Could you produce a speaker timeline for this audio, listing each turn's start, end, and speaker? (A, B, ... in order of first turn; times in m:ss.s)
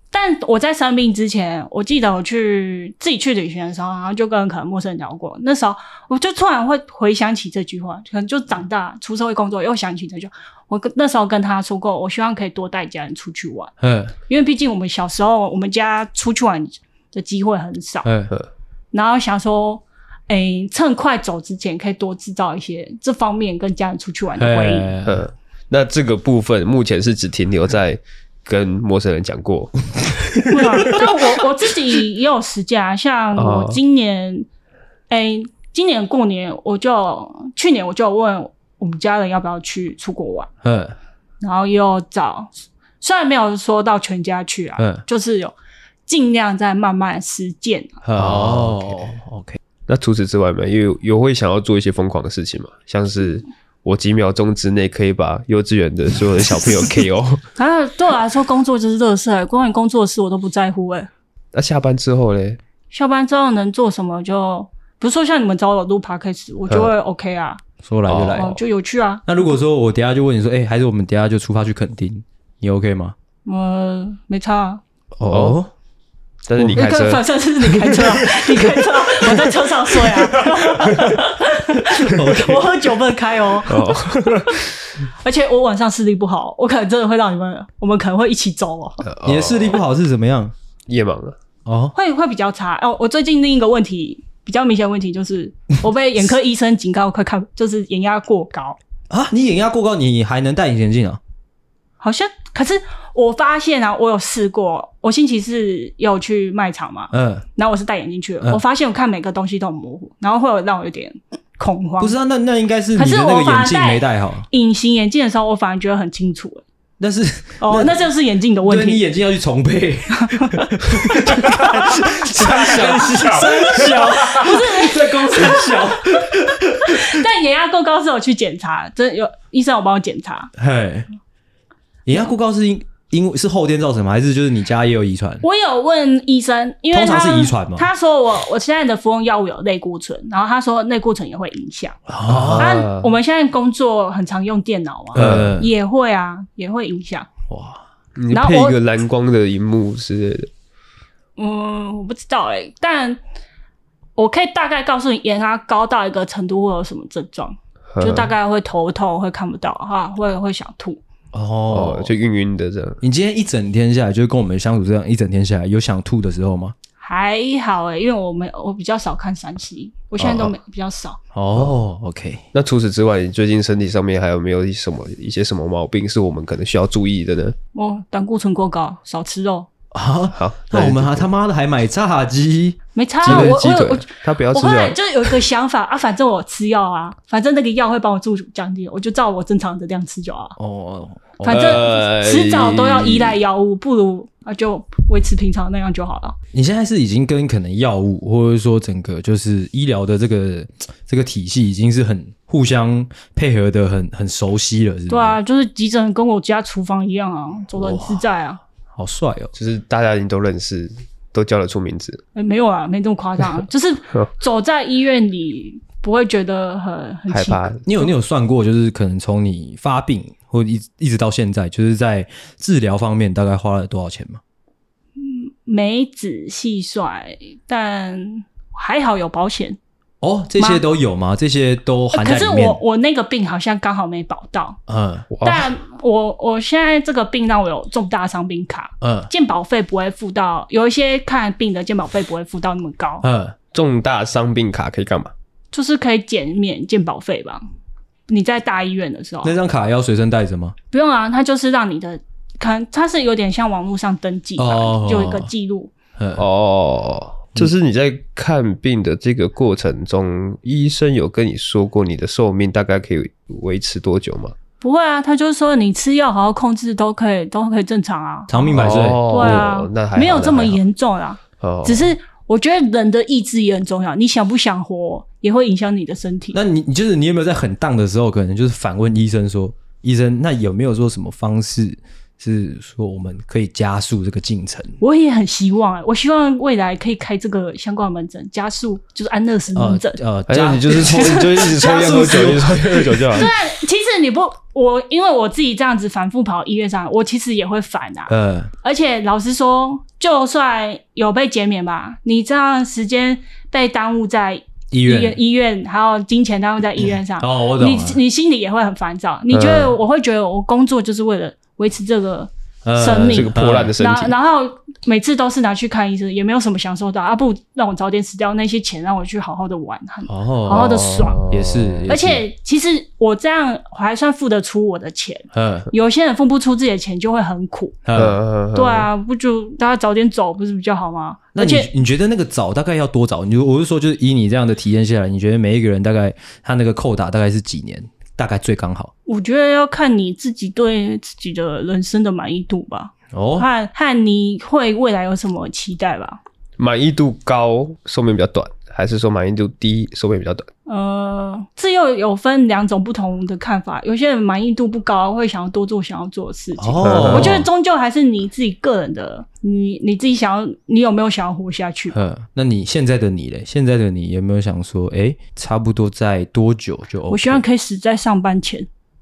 0:00.1-0:13.7 A
0:13.8-0:14.1 B
0:14.3-0:18.1 A
0:18.0-0:18.3 B
0:18.9-0:24.9 A
0:24.4-0:25.3 B
0:25.0-0:31.0 C
0:30.5-0:34.5 A
0:33.4-0:33.8 C
0:35.1-0:40.5 A
0:40.6-0:41.0 B
0:41.4-0:45.5 A
0:44.8-0:45.0 B
0:46.1-0:48.0 A
0:48.0-0:49.6 B
0:48.2-0:49.0 C
0:49.9-0:57.4 C
0:57.6-1:01.1 A
1:01.5-1:02.6 C
1:02.9-1:07.6 A
1:07.8-1:08.6 B
1:08.1-1:08.6 C
1:08.3-1:09.3 A
1:09.3-1:13.2 B
1:13.5-1:14.8 A
1:15.2-1:15.7 B
1:15.3-1:15.6 C
1:16.5-1:18.2 C
1:16.7-1:29.1 A
1:20.9-1:21.2 B
1:21.9-1:22.8 B
1:23.7-1:24.6 C
1:29.0-1:29.8 C
1:29.2-1:30.5 B
1:30.9-1:31.4 C
1:31.7-1:31.9 B
1:31.9-1:38.8 A
1:39.1-1:41.2 B
1:42.0-1:52.2 A
1:47.1-1:47.5 B
1:52.0-1:54.5 B
1:53.0-1:56.6 A
1:57.0-1:58.0 B
1:57.6-1:59.0 A
1:58.6-2:07.2 B
2:00.2-2:00.7 A
2:01.3-2:06.3 A
2:02.3-2:03.5 C
2:06.8-2:10.5 A
2:10.6-2:11.1 B
2:12.1-2:15.4 B
2:15.4-2:22.0 A
2:16.9-2:17.9 B
2:22.1-2:22.8 B
2:22.3-2:23.1 C
2:22.6-2:27.3 A
2:25.1-2:25.7 B
2:25.2-2:25.5 C
2:27.5-2:27.8 B
2:28.2-2:30.5 C
2:28.3-2:28.8 A
2:31.4-2:33.2 A
2:34.2-2:41.0 A
2:37.9-2:38.3 C
2:41.3-2:42.1 B
2:41.7-2:43.0 C
2:43.0-2:46.8 B
2:47.0-2:51.2 A
2:51.3-2:52.4 B
2:52.5-2:57.6 C
2:57.8-2:59.7 A
2:59.9-3:03.6 B
3:00.3-3:01.3 C
3:03.0-3:10.6 A
3:03.2-3:05.3 C
3:10.6-3:11.8 B
3:11.4-3:16.4 A
3:11.5-3:13.4 C
3:16.5-3:25.4 B
3:25.1-3:28.6 A
3:27.8-3:28.2 B
3:28.9-3:29.5 B
3:29.5-3:32.2 C
3:32.4-3:37.7 A
3:37.3-3:37.8 C
3:37.8-3:44.4 B
3:45.2-3:49.8 A
3:50.2-3:52.8 B
3:50.6-3:50.8 A
3:52.1-3:54.8 A
3:54.9-3:55.3 B
3:55.3-3:55.7 C
3:55.4-4:03.3 A
3:59.0-3:59.3 B
4:03.2-4:03.6 B
4:03.7-4:05.3 C
4:05.7-4:07.6 A
4:08.3-4:09.6 A
4:09.4-4:10.8 B
4:10.9-4:15.9 A
4:14.6-4:15.5 B
4:16.2-4:16.4 B
4:16.4-4:24.6 C
4:24.8-4:36.6 A
4:28.5-4:29.7 B
4:28.7-4:30.8 C
4:31.6-4:32.1 C
4:36.5-4:45.0 B
4:45.0-4:50.2 A
4:49.7-4:53.4 B
4:50.5-4:53.5 C
4:50.9-4:52.4 A
4:53.3-5:21.5 A
4:58.3-4:58.7 B
5:04.9-5:05.4 B
5:07.4-5:08.2 B
5:09.5-5:09.9 C
5:12.8-5:14.0 B
5:13.2-5:14.3 C
5:20.3-5:22.4 B
5:20.7-5:22.1 C
5:22.1-5:28.0 A
5:25.5-5:25.9 B
5:28.0-5:28.4 B
5:28.2-5:29.1 C
5:28.7-5:31.9 A
5:31.5-5:39.1 B
5:39.3-5:46.4 A
5:43.3-5:43.7 B
5:46.8-5:50.7 C
5:50.9-6:02.2 A
5:56.8-5:57.7 B
5:57.0-5:57.6 C
6:02.1-6:07.6 B
6:07.3-6:08.9 A